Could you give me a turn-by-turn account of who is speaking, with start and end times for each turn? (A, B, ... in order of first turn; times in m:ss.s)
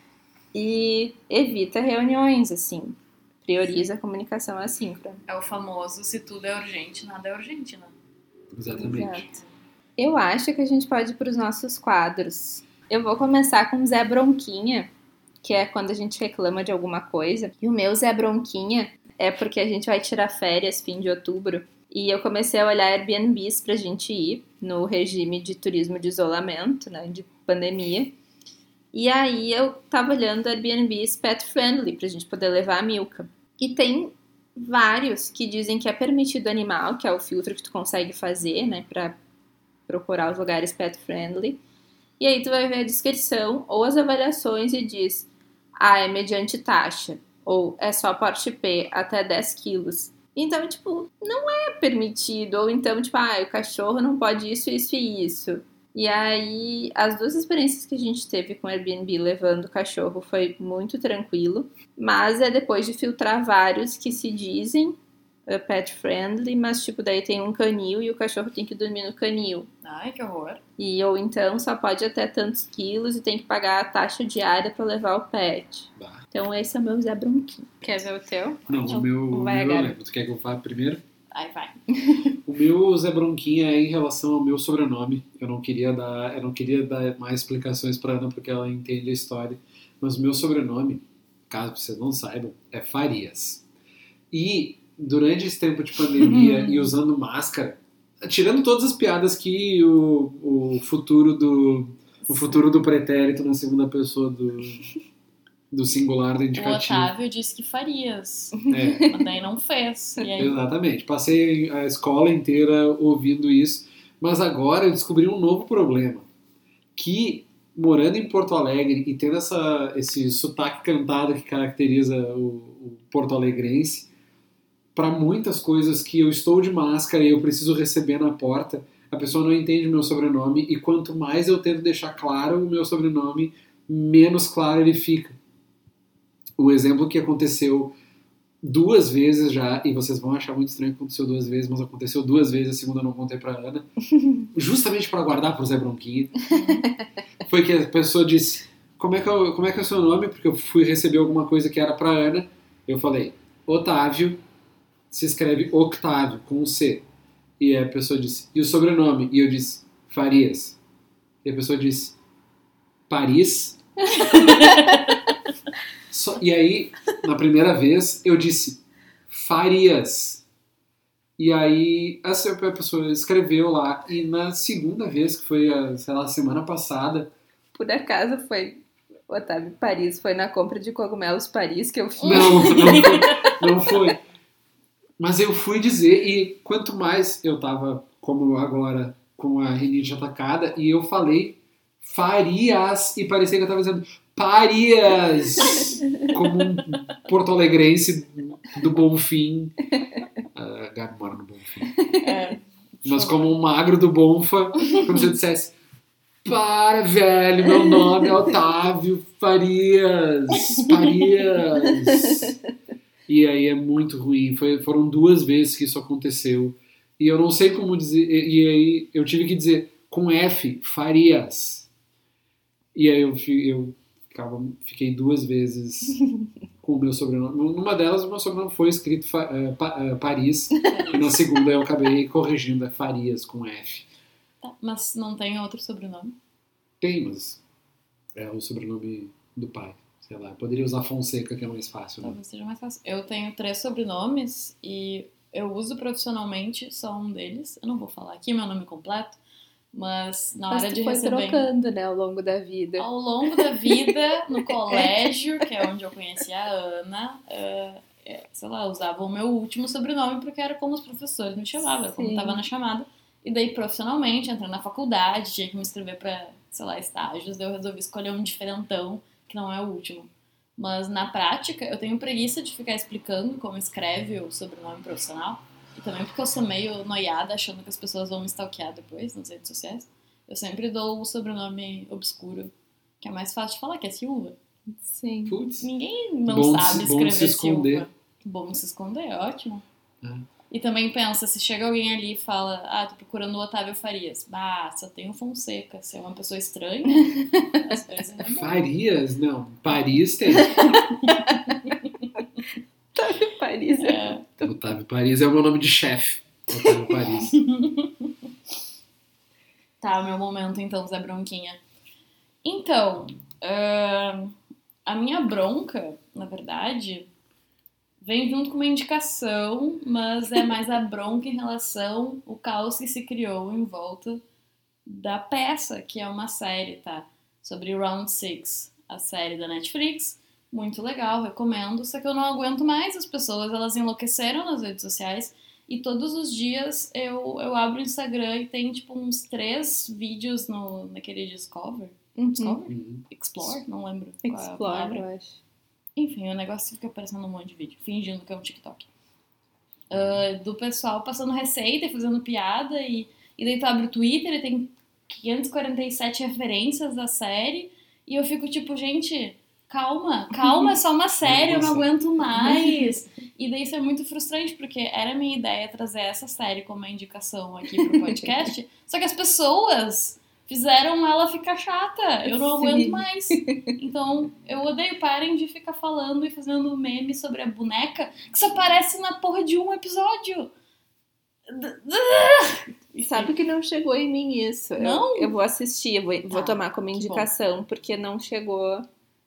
0:00.5-0:05.2 A
0:05.3-0:08.0 B
0:08.5-0:09.3 C
0:08.7-0:09.4 A
0:10.0-0:14.9 A
0:15.4-0:28.1 A
0:28.9-0:39.2 A
0:39.9-0:41.6 A
0:42.2-1:09.7 A
1:09.8-1:10.6 B
1:10.8-1:20.0 A
1:16.0-1:16.2 C
1:18.7-1:21.0 C
1:21.3-1:21.8 B
1:22.4-1:33.6 C
1:34.3-1:44.9 C
1:36.2-1:36.9 B
1:42.2-1:42.7 B
1:45.7-1:47.1 C
1:46.5-1:50.6 B
1:48.7-1:49.1 C
1:50.4-1:56.3 C
1:57.0-2:04.1 C
2:05.0-2:15.4 C
2:16.6-2:17.9 C
2:18.6-2:23.9 C
2:24.5-2:26.4 C
2:26.5-2:26.9 B
2:27.4-2:34.4 C
2:35.1-2:37.0 C
2:37.6-2:40.8 C
2:41.4-2:42.2 C
2:43.1-2:43.8 C
2:44.1-2:45.2 B
2:46.1-2:50.4 C
2:51.4-2:57.3 C
2:57.7-3:03.1 A
3:02.2-3:03.6 B
3:02.2-3:04.2 C
3:05.2-3:19.8 C
3:15.6-3:15.9 B
3:20.5-3:21.9 C
3:22.0-3:22.3 A
3:22.2-3:23.5 B
3:23.0-3:25.7 C
3:26.4-3:32.6 C
3:32.1-3:32.4 A
3:33.3-3:41.9 C
3:42.9-3:46.2 C
3:46.8-3:54.1 C
3:50.8-3:51.3 B
3:54.6-3:56.3 B
3:57.0-3:57.6 C
3:58.3-4:02.4 C
4:02.2-4:09.4 B
4:09.9-4:11.7 B
4:10.7-4:15.1 A
4:13.0-4:44.6 B
4:22.0-4:22.6 A
4:45.0-4:45.6 A
4:45.4-4:45.9 C
4:45.8-4:49.8 B
4:46.5-4:48.1 C
4:50.7-4:58.8 B
4:58.4-5:00.8 C
5:00.6-5:00.9 A
5:00.9-5:02.4 B
5:03.1-5:04.7 A
5:04.0-5:04.4 B
5:04.6-5:07.6 C
5:06.8-5:07.0 A
5:07.5-5:08.3 B
5:10.0-5:11.8 B
5:12.6-5:17.3 B
5:18.2-5:24.4 B
5:25.0-5:45.2 B
5:42.4-5:42.8 A
5:42.9-5:43.8 C
5:44.4-5:45.6 A
5:46.2-5:49.1 B
5:50.1-5:50.4 C
5:50.1-6:20.7 B
6:01.4-6:02.1 C
6:02.7-6:03.0 A
6:07.9-6:08.6 A
6:12.5-6:13.9 A
6:21.7-6:23.5 B
6:23.2-6:29.1 A
6:25.0-6:25.5 B
6:26.5-6:27.5 B